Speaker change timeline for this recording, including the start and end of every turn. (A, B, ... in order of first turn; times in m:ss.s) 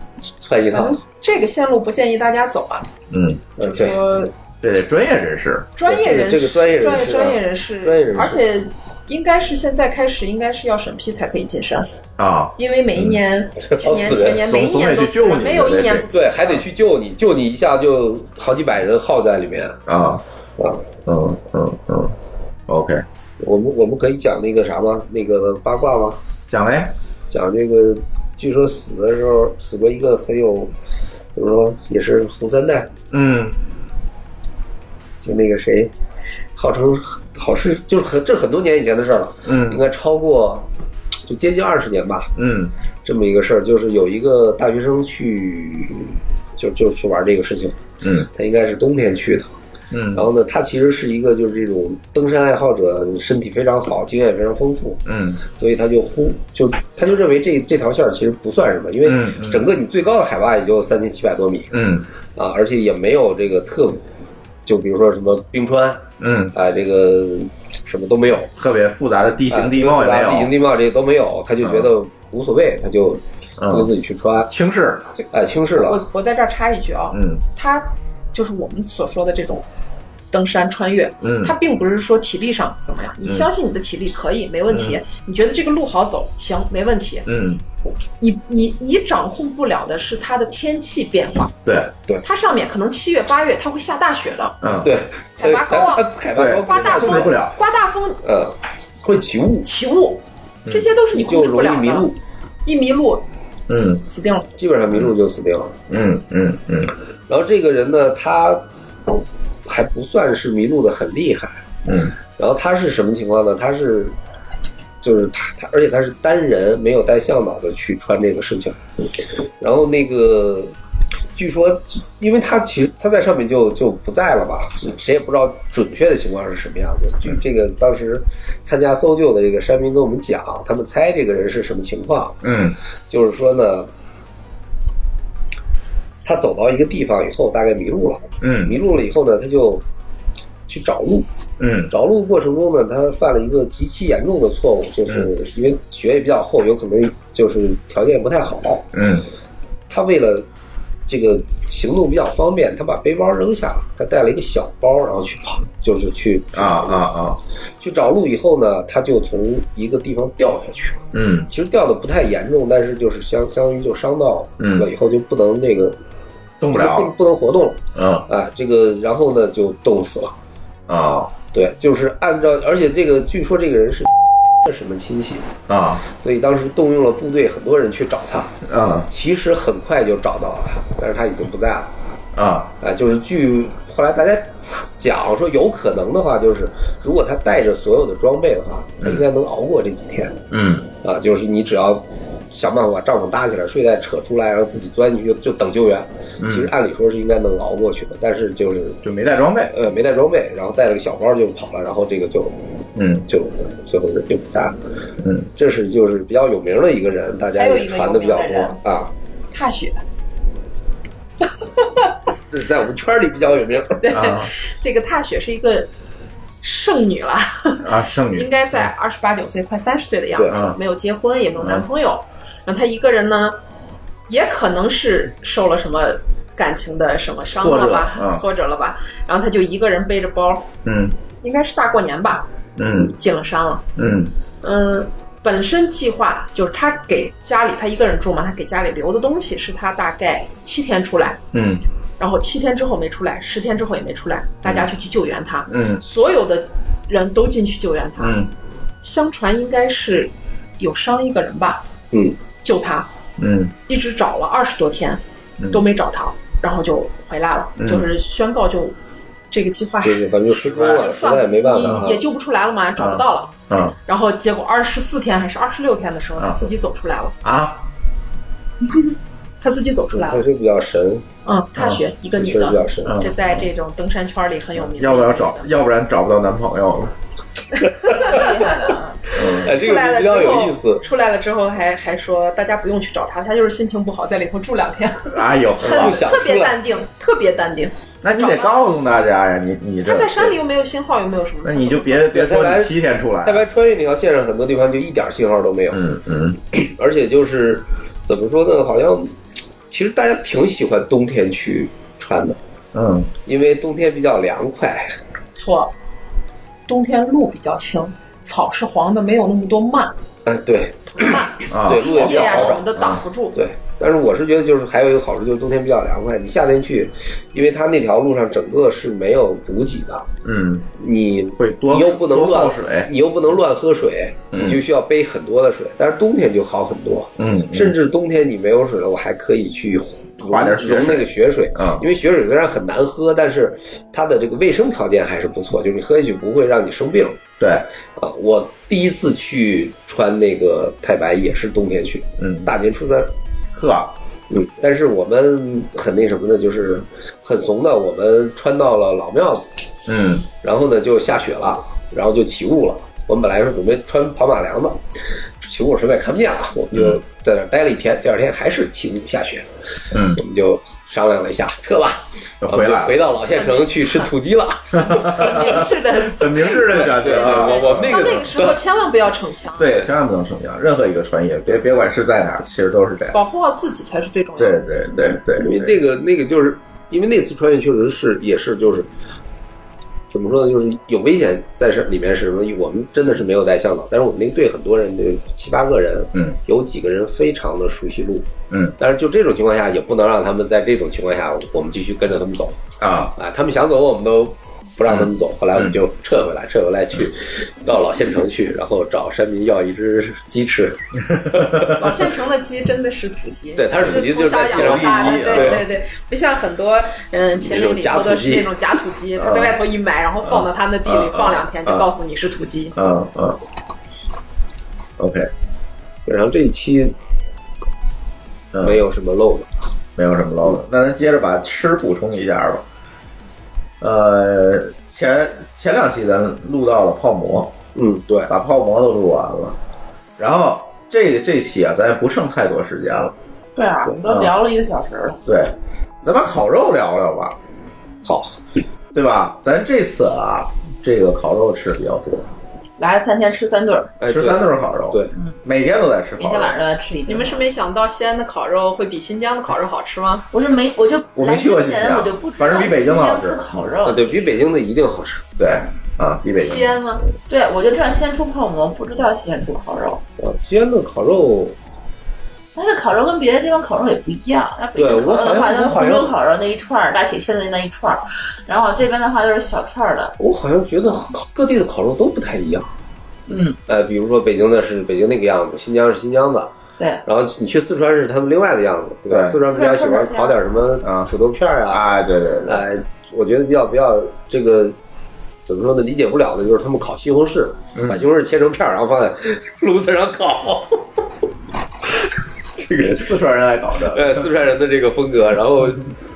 0:00.2-0:01.0 A
0:00.7-0:02.9 B
0:03.1-0:03.5 C
0:03.6-0:04.0 A
0:03.6-0:04.3 B
0:04.6-0:05.7 C
0:05.8-0:11.9 B
0:05.8-0:08.4 A
0:12.2-0:13.2 C
0:12.6-0:16.6 B
0:13.7-0:14.4 A
0:14.1-0:16.1 C
0:16.1-0:19.8 A
0:19.9-0:20.2 C
0:20.6-0:20.9 A
0:21.1-0:22.2 C
0:22.7-0:23.0 C
0:23.4-0:26.2 A
0:26.5-0:26.9 C
0:27.3-0:30.7 A
0:31.4-0:32.9 A
0:33.1-0:33.6 C
0:35.2-0:35.9 A
0:36.6-0:40.7 A
0:39.5-0:39.8 C
0:41.3-0:42.3 A
0:42.4-0:42.7 C
0:43.0-0:47.8 A
0:48.0-0:48.3 C
0:48.3-0:49.5 A
0:49.9-0:50.3 C
0:50.1-0:55.0 A
0:55.1-0:55.4 C
0:55.6-1:01.7 A
0:59.0-0:59.7 C
1:01.7-1:02.1 C
1:02.4-1:04.0 A
1:04.7-1:08.5 A
1:06.2-1:06.5 C
1:08.6-1:10.5 C
1:09.5-1:14.5 A
1:11.6-1:11.9 C
1:13.6-1:13.9 C
1:14.5-1:15.1 C
1:15.2-1:19.6 B
1:15.3-1:16.0 A
1:17.1-1:17.4 C
1:20.3-1:27.3 B
1:21.2-1:21.6 C
1:23.2-1:23.5 C
1:24.7-1:25.0 C
1:27.3-1:27.6 C
1:28.2-1:31.6 B
1:31.6-1:31.9 C
1:32.2-1:34.6 B
1:34.6-1:35.0 C
1:34.8-1:37.4 A
1:35.4-1:36.1 B
1:36.3-1:37.6 C
1:36.7-1:38.2 B
1:38.2-1:39.7 A
1:39.6-1:42.1 B
1:41.1-1:42.2 A
1:42.6-1:43.2 B
1:43.7-1:44.0 C
1:44.0-1:44.5 B
1:44.6-1:45.8 A
1:45.9-1:46.9 C
1:47.3-1:48.6 A
1:49.7-1:51.6 A
1:51.9-1:52.2 C
1:52.4-1:54.2 A
1:55.0-1:58.8 A
1:59.6-2:00.7 A
2:01.4-2:12.4 A
2:12.4-2:12.8 C
2:13.1-2:13.9 A
2:16.2-2:19.8 A
2:18.4-2:18.8 C
2:20.7-2:21.3 A
2:21.6-2:21.9 C
2:21.9-2:28.9 A
2:28.9-2:29.3 C
2:29.9-2:30.5 A
2:31.1-2:37.0 A
2:36.5-2:37.4 C
2:37.8-2:46.0 A
2:41.1-2:41.5 C
2:44.6-2:44.9 C
2:46.6-2:47.2 C
2:46.7-2:50.3 A
2:48.0-2:48.3 C
2:50.9-2:51.3 C
2:51.5-2:54.1 A
2:54.6-2:55.5 A
2:55.7-2:56.0 C
2:56.1-2:58.6 A
2:58.6-2:59.1 C
2:59.1-3:01.9 A
3:02.4-3:02.7 C
3:02.8-3:10.4 A
3:10.5-3:10.9 C
3:11.0-3:19.0 A
3:16.4-3:16.7 C
3:19.0-3:19.7 C
3:19.7-3:22.6 A
3:23.0-3:23.3 C
3:23.3-3:24.8 A
3:25.2-3:25.5 C
3:25.6-3:29.1 A
3:27.6-3:28.8 B
3:29.5-3:30.0 B
3:32.5-3:34.1 A
3:33.9-3:35.9 B
3:34.1-3:34.5 C
3:36.6-3:43.6 B
3:37.8-3:38.9 C
3:40.4-3:40.6 A
3:40.5-3:40.8 C
3:41.6-3:41.8 C
3:44.3-3:50.7 B
3:47.6-3:48.4 C
3:50.8-3:51.2 C
3:51.4-3:52.5 B
3:52.8-3:53.2 C
3:53.1-3:53.8 B
3:54.0-3:54.3 C
3:54.6-4:01.4 B
4:01.5-4:01.8 C
4:02.2-4:08.4 B
4:05.7-4:06.0 C
4:08.2-4:08.5 C
4:09.0-4:11.8 B
4:12.1-4:12.4 A
4:12.6-4:13.1 B
4:13.4-4:13.8 C
4:13.9-4:19.0 B
4:15.6-4:15.8 C
4:17.8-4:18.1 C
4:19.5-4:20.3 B
4:20.0-4:22.2 A
4:20.6-4:21.2 C
4:20.9-4:23.5 B
4:21.8-4:22.0 C
4:23.0-4:24.0 C
4:24.1-4:27.4 B
4:26.4-4:26.7 C
4:27.4-4:27.9 C
4:29.6-4:30.4 B
4:30.1-4:31.2 A
4:31.4-4:35.7 B
4:31.8-4:32.0 C
4:32.4-4:33.2 A
4:33.0-4:33.6 C
4:34.8-4:37.2 C
4:38.0-4:38.5 B
4:38.2-4:39.2 D
4:39.3-4:39.7 C
4:39.4-4:41.0 A
4:39.6-4:48.7 B
4:45.3-4:46.4 C
4:45.8-4:46.8 A
4:48.2-4:50.6 C
4:50.0-4:52.4 B
4:51.6-4:53.7 C
4:52.3-4:56.0 A
4:55.9-4:56.6 C
4:56.7-4:59.4 A
4:59.9-5:02.6 A
5:02.9-5:03.3 C
5:03.5-5:05.2 A
5:05.6-5:05.9 B
5:06.9-5:10.1 B
5:10.5-5:12.8 A
5:11.1-5:13.6 B
5:11.7-5:13.2 C
5:13.6-5:20.3 A
5:20.4-5:20.9 C
5:21.0-5:37.4 A
5:21.6-5:23.1 C
5:24.5-5:24.8 C
5:27.4-5:28.0 C
5:30.4-5:32.0 C
5:37.6-5:37.9 C
5:38.2-5:43.3 A
5:42.4-5:42.7 C
5:43.7-5:44.1 C
5:44.5-5:49.7 A
5:50.1-5:50.5 C
5:50.6-5:55.0 A
5:55.6-5:59.7 A
5:56.9-5:57.2 C
6:00.1-6:00.4 C
6:00.4-6:05.8 A
6:02.6-6:03.2 C
6:03.6-6:04.3 B
6:05.0-6:08.4 C
6:05.3-6:10.1 B
6:06.8-6:08.8 A
6:09.8-6:13.4 C
6:13.3-6:14.8 B
6:14.6-6:16.0 C
6:15.6-6:19.1 A
6:20.3-6:28.5 A
6:28.7-6:29.0 C
6:29.0-6:32.8 A
6:33.0-6:33.3 C
6:33.4-6:42.2 A
6:35.1-6:36.0 C
6:41.5-6:41.9 C
6:42.0-6:53.0 B
6:43.8-6:45.8 A
6:44.7-6:45.8 C
6:47.6-6:48.8 A
6:49.4-6:49.7 C
6:50.4-6:52.1 C
6:52.9-6:53.6 C
6:55.2-6:55.5 C
6:56.3-6:57.2 A
6:58.7-6:59.0 C
6:58.8-6:59.8 A
7:00.2-7:02.8 C
7:04.0-7:07.7 C
7:08.0-7:08.5 A
7:08.5-7:09.8 C
7:10.4-7:13.4 C
7:13.8-7:15.4 D
7:14.2-7:14.6 C
7:15.5-7:17.6 C
7:18.2-7:18.6 A
7:19.1-7:22.5 C
7:23.0-7:24.2 D
7:24.2-7:25.3 A
7:24.2-7:26.8 C
7:26.4-7:27.7 D
7:27.3-7:30.4 B
7:30.5-7:34.6 D
7:31.4-7:33.7 C
7:34.0-7:35.5 A
7:35.6-7:37.0 C
7:36.6-7:37.2 B
7:37.5-7:40.2 D
7:40.4-7:41.8 A
7:42.8-7:50.4 D
7:45.0-7:46.3 A
7:50.4-7:52.9 A
7:53.5-7:53.8 D
7:53.9-7:56.7 A
7:57.0-7:57.2 D
7:57.2-8:02.0 A
7:59.3-7:59.6 C
7:59.7-8:00.8 D
8:01.0-8:01.3 C
8:01.9-8:02.8 C
8:02.6-8:05.0 A
8:05.7-8:11.0 A
8:08.0-8:08.2 C
8:12.9-8:14.5 C
8:12.9-8:13.2 A
8:14.1-8:16.1 A